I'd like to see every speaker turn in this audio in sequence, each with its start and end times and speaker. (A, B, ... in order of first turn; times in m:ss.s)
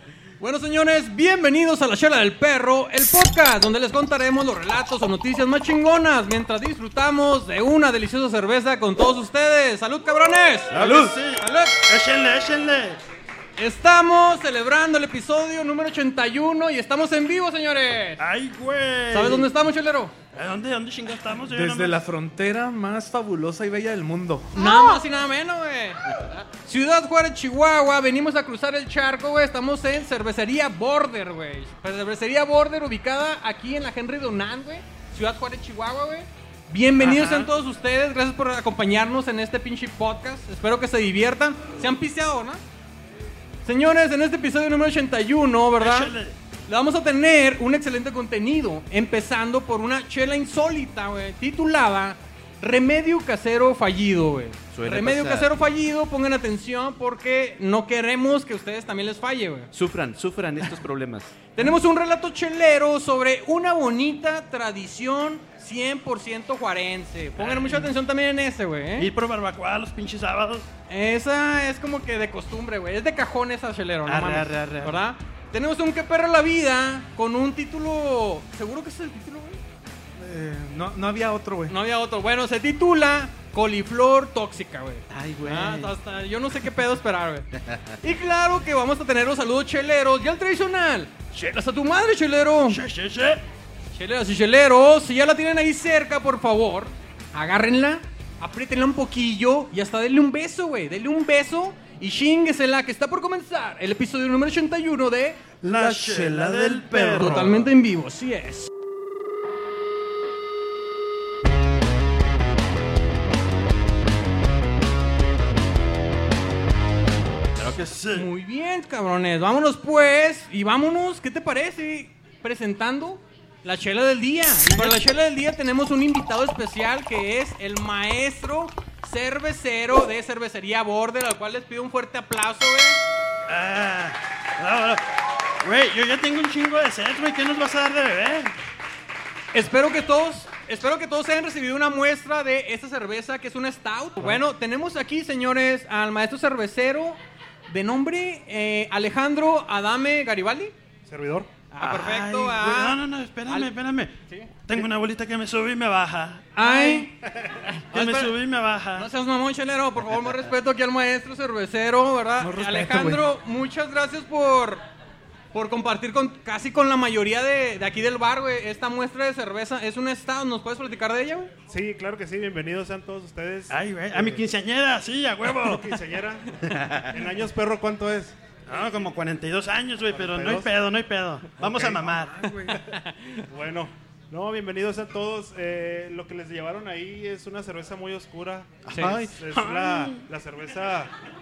0:00.4-0:11.8 A
0:10.7-0:13.0 B
0:13.6-0:18.2 A
0:18.2-0:19.5 B
0:19.1-0:20.1 A
0:20.3-0:22.0 B
0:21.5-0:24.6 C
0:24.5-0:42.6 A
0:37.0-0:37.5 B
0:43.6-0:46.1 A
0:45.8-0:46.4 B
0:46.7-0:59.7 A
0:54.7-0:55.5 D
0:59.7-1:01.4 D
1:01.5-1:09.1 A
1:07.4-1:07.9 B
1:09.0-1:10.7 B
1:10.9-1:19.6 A
1:14.0-1:15.0 B
1:20.2-1:21.8 C
1:21.7-1:27.5 A
1:25.1-1:26.0 D
1:27.6-1:28.0 D
1:28.0-1:32.8 A
1:32.7-1:33.4 B
1:33.9-1:45.4 A
1:45.6-1:47.7 B
1:45.7-1:47.6 C
1:47.1-1:48.7 A
1:57.6-1:58.3 B
1:58.1-2:13.0 A
2:04.7-2:05.0 B
2:13.5-2:15.0 B
2:15.6-2:18.6 B
2:19.5-2:30.7 A
2:31.1-2:31.5 E
2:31.7-2:33.7 A
2:31.8-2:34.1 B
2:34.3-2:34.8 A
2:34.6-2:36.6 B
2:36.6-2:38.4 A
2:36.8-2:37.6 E
2:37.9-2:39.1 B
2:38.9-2:44.8 A
2:42.4-2:43.2 C
2:45.5-2:51.5 A
2:51.7-2:54.4 E
2:53.7-2:56.0 B
2:55.6-2:56.5 E
2:56.7-2:57.1 D
2:57.1-2:58.4 E
2:58.7-3:02.4 B
3:00.1-3:00.8 E
3:01.6-3:02.2 E
3:02.4-3:02.8 C
3:02.8-3:03.5 A
3:03.5-3:11.1 E
3:08.9-3:09.2 A
3:08.9-3:09.4 D
3:09.0-3:10.2 B